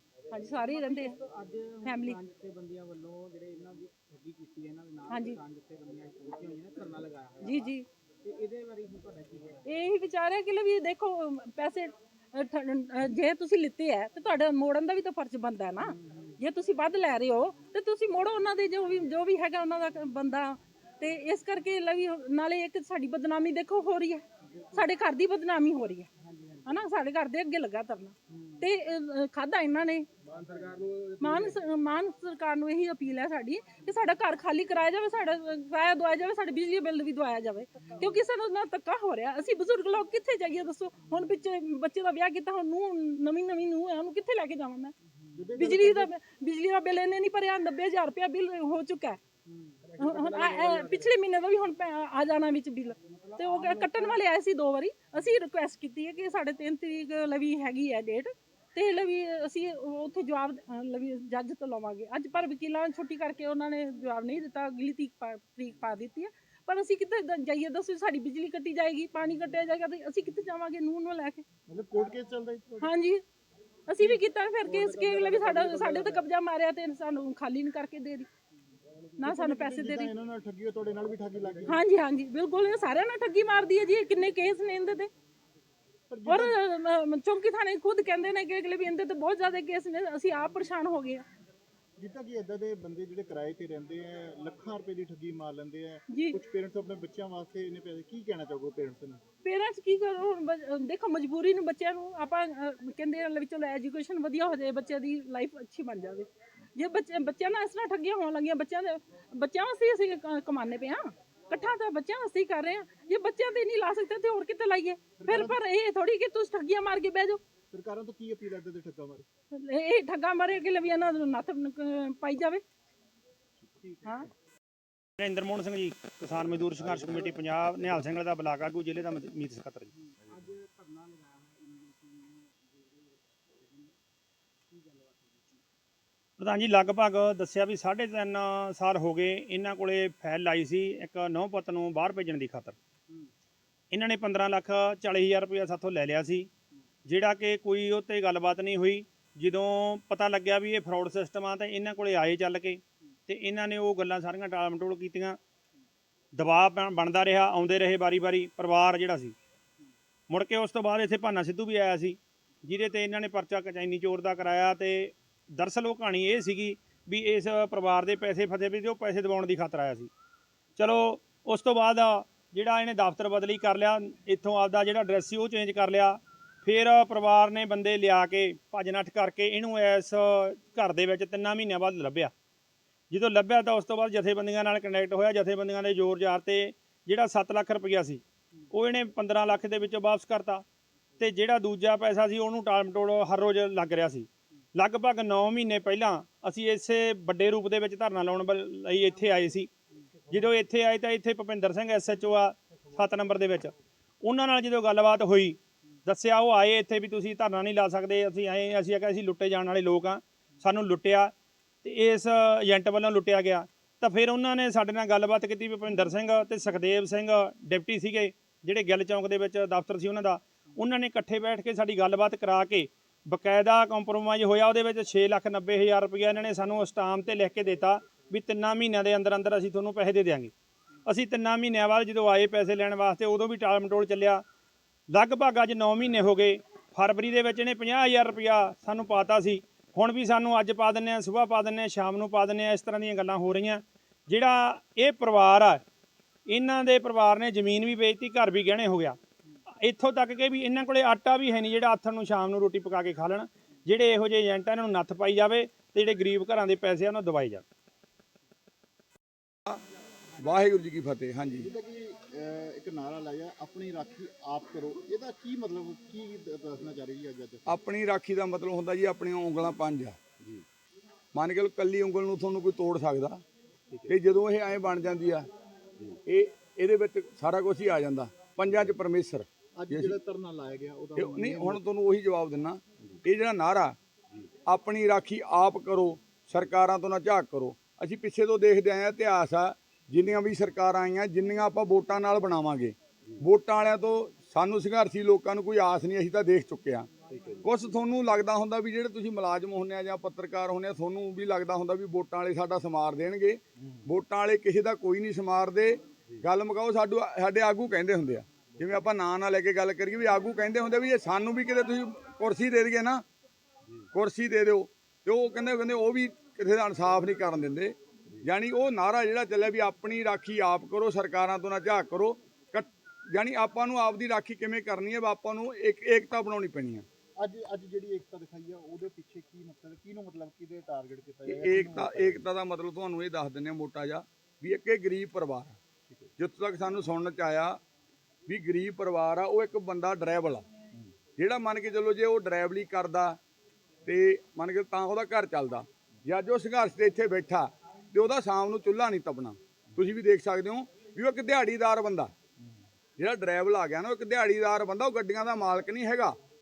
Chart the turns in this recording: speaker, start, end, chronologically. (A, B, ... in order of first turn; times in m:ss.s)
0:00.3-0:10.0 A
0:00.3-0:01.2 B
0:01.8-0:02.2 B
0:05.1-0:05.4 B
0:07.4-0:07.8 B
0:09.8-0:24.2 B
0:15.8-0:16.5 A
0:18.0-0:19.1 A
0:24.5-0:25.2 A
0:24.8-0:26.1 B
0:26.2-0:27.0 A
0:26.7-0:30.0 B
0:28.3-0:28.8 A
0:30.2-0:31.8 A
0:31.2-0:44.9 B
0:33.8-0:34.1 A
0:38.0-0:38.3 A
0:41.0-0:41.3 A
0:45.3-0:46.1 C
0:45.6-0:49.2 B
0:49.5-0:51.1 A
0:50.0-1:11.4 B
0:52.9-0:54.3 A
1:11.7-1:13.0 C
1:12.8-1:13.2 B
1:13.9-1:18.3 B
1:14.0-1:16.0 C
1:14.6-1:16.2 A
1:19.2-1:21.8 C
1:19.2-1:20.1 B
1:21.7-1:25.1 B
1:26.1-1:26.6 C
1:26.3-1:31.2 B
1:32.0-1:39.2 C
1:39.4-1:57.4 B
1:55.2-1:55.6 C
1:57.7-1:59.3 C
1:59.5-2:02.6 B
2:04.0-2:04.3 B
2:05.2-2:09.9 D
2:06.8-2:07.3 C
2:09.9-2:14.0 A
2:14.7-2:15.6 A
2:16.4-2:22.8 D
2:23.9-2:26.5 D
2:27.1-2:35.4 D
2:36.4-2:39.4 D
2:40.3-2:50.1 D
2:50.8-3:02.3 D
3:03.1-3:10.6 D
3:11.2-3:19.7 D
3:19.2-3:20.4 A
3:20.3-3:50.5 D
3:51.1-3:54.5 D
3:55.1-4:05.8 D
4:06.5-4:09.2 D
4:09.8-4:17.6 D
4:20.4-4:21.7 E
4:21.6-4:27.8 C
4:27.7-4:30.2 E
4:31.3-4:33.4 E
4:34.1-4:35.5 E
4:36.3-4:40.2 E
4:39.8-4:41.8 C
4:41.2-4:44.0 E
4:44.7-4:57.1 E
4:57.3-4:57.6 C
4:57.6-5:13.2 E
5:14.1-5:27.1 E
5:27.4-5:32.4 C
5:31.5-5:35.8 E
5:36.4-5:37.8 E
5:38.5-5:40.7 E
5:41.4-5:43.4 E
5:44.1-5:52.3 E
5:53.2-5:56.4 E